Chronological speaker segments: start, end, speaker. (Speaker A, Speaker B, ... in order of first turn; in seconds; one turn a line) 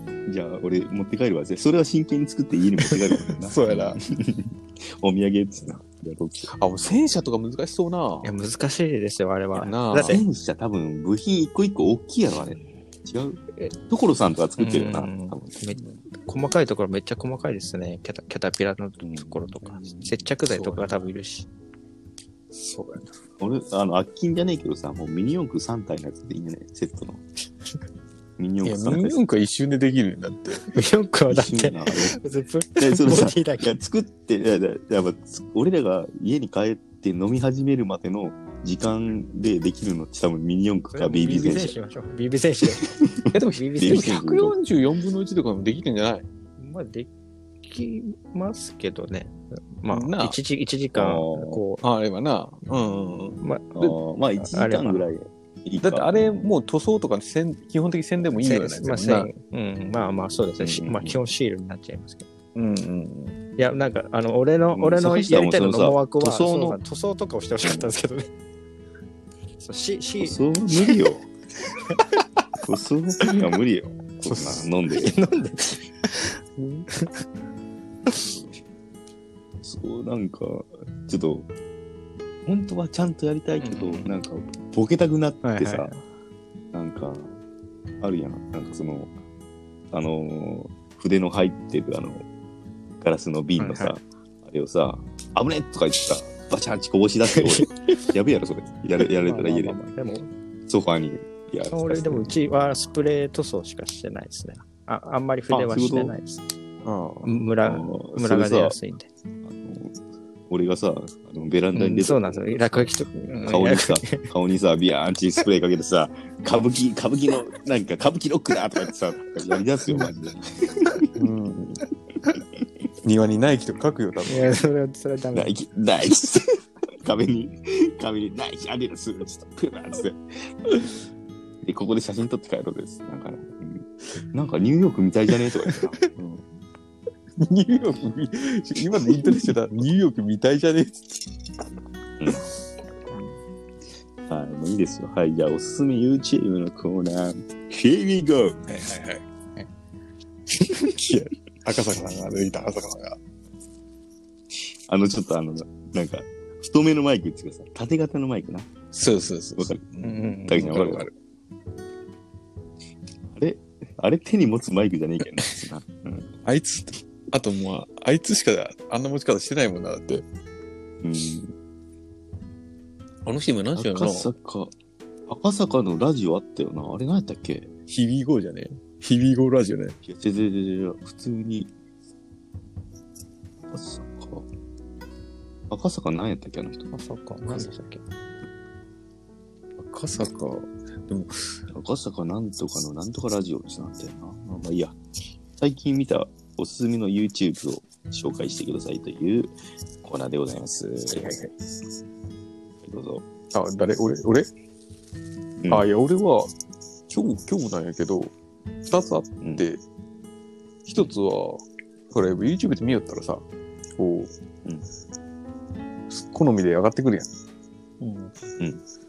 Speaker A: 0.2-6.5
Speaker B: 3.2-4.0
Speaker B: 6.5-8.3
Speaker C: 8.2-10.2
Speaker B: 9.6-10.2
Speaker A: 10.0-16.0
Speaker C: 14.6-21.5
Speaker A: 19.0-19.5
Speaker B: 19.7-20.0
Speaker B: 22.5-23.1
Speaker A: 23.4-27.2
Speaker A: 28.4-29.2
Speaker B: 28.6-30.6
Speaker C: 30.7-33.7
Speaker A: 31.3-32.2
Speaker A: 32.8-41.8
Speaker C: 40.9-42.9
Speaker A: 43.0-44.5
Speaker B: 43.3-46.2
Speaker C: 43.5-44.2
Speaker C: 46.6-47.1
Speaker C: 47.6-51.8
Speaker B: 49.9-50.4
Speaker A: 50.9-51.6
Speaker B: 51.8-53.9
Speaker C: 53.4-53.7
Speaker A: 53.7-56.5
Speaker C: 54.4-55.1
Speaker B: 55.8-59.3
Speaker C: 58.4-62.3
Speaker A: 60.6-61.2
Speaker B: 62.5-63.4
Speaker C: 63.6-68.3
Speaker A: 64.7-66.8
Speaker A: 67.6-67.9
Speaker C: 69.6-71.0
Speaker A: 70.2-71.2
Speaker A: 72.6-75.1
Speaker C: 74.9-76.4
Speaker B: 76.6-76.8
Speaker C: 76.9-77.2
Speaker A: 79.6-81.5
Speaker A: 82.4-85.9
Speaker C: 83.6-84.1
Speaker C: 85.4-86.0
Speaker A: 86.7-87.3
Speaker A: 88.0-89.1
Speaker A: 89.9-92.2
Speaker A: 93.0-99.8
Speaker C: 93.6-93.9
Speaker C: 97.3-97.7
Speaker C: 99.2-100.3
Speaker A: 100.7-102.3
Speaker C: 101.6-106.4
Speaker A: 105.5-106.2
Speaker B: 106.8-107.3
Speaker C: 107.2-109.1
Speaker A: 107.6-108.8
Speaker A: 109.4-110.0
Speaker A: 110.5-112.9
Speaker C: 111.7-114.3
Speaker A: 113.5-121.2
Speaker B: 121.2-121.8
Speaker B: 123.0-124.5
Speaker C: 124.3-125.5
Speaker A: 125.3-130.2
Speaker A: 131.6-136.4
Speaker B: 135.6-136.1
Speaker B: 137.4-141.2
Speaker A: 139.0-139.5
Speaker A: 142.2-142.4
Speaker A: 144.3-148.6
Speaker B: 148.7-149.2
Speaker B: 150.7-153.2
Speaker A: 154.9-158.7
Speaker B: 158.9-161.1
Speaker A: 159.6-159.8
Speaker C: 160.0-160.8
Speaker A: 160.4-161.1
Speaker A: 163.3-166.3
Speaker B: 166.4-170.2
Speaker A: 171.0-171.5
Speaker B: 173.2-174.3
Speaker A: 173.7-174.7
Speaker A: 175.3-177.7
Speaker B: 177.9-180.0
Speaker A: 180.0-181.7
Speaker A: 183.7-184.4
Speaker A: 185.7-186.9
Speaker C: 186.9-188.0
Speaker B: 189.8-191.6
Speaker A: 191.7-195.0
Speaker A: 195.5-201.4
Speaker B: 201.1-201.5
Speaker A: 202.8-203.2
Speaker B: 203.5-204.5
Speaker A: 205.6-205.9
Speaker B: 205.7-206.5
Speaker B: 207.1-208.3
Speaker B: 208.9-209.8
Speaker A: 209.4-209.7
Speaker B: 210.8-213.4
Speaker B: 214.0-214.3
Speaker B: 216.1-217.3
Speaker C: 218.0-218.3